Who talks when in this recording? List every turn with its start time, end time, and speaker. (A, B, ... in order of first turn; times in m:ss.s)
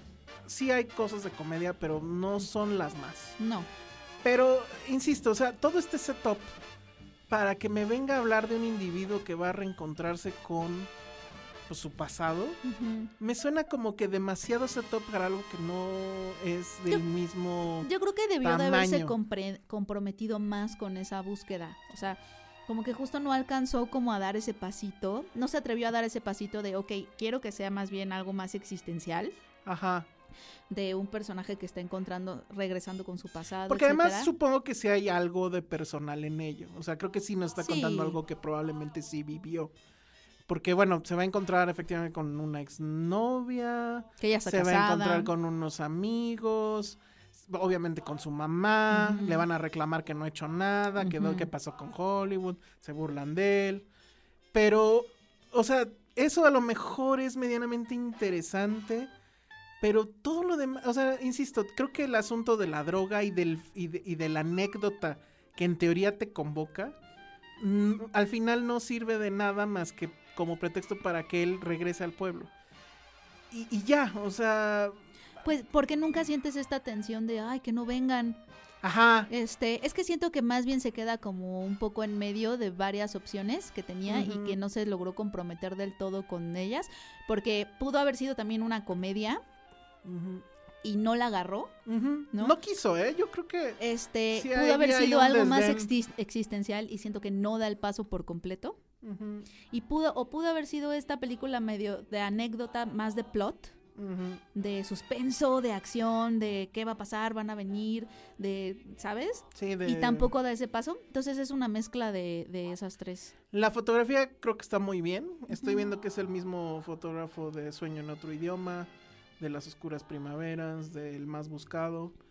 0:00.4-0:03.4 A
0:03.4-0:03.7 B
0:04.2-0:06.5 A
0:07.3-0:10.9 A
0:11.7-0:12.6 A
0:12.6-0:13.1 B
0:13.2-0:17.9 A
0:17.8-0:29.3 B
0:18.4-0:19.1 A
0:29.6-0:30.1 A
0:30.7-0:34.3 B
0:33.7-0:39.7 A
0:37.6-0:38.2 B
0:40.5-0:53.8 A
0:44.2-0:45.3 B
0:48.9-0:49.4 B
0:51.0-0:51.5 B
0:54.5-0:59.1 A
0:59.8-1:07.0 A
1:07.6-1:12.5 A
1:13.5-1:15.0 A
1:15.4-1:18.4 B
1:18.8-1:19.3 A
1:19.3-1:29.4 B
1:24.1-1:24.6 A
1:30.0-1:30.4 A
1:30.8-1:31.7 B
1:31.8-1:33.8 A
1:33.8-1:38.8 B
1:34.3-1:35.9 A
1:39.0-1:39.5 A
1:39.7-1:43.7 B
1:44.0-1:44.4 A
1:44.5-1:53.3 B
1:49.5-1:50.3 A
1:53.5-2:02.1 A
1:55.5-1:55.8 B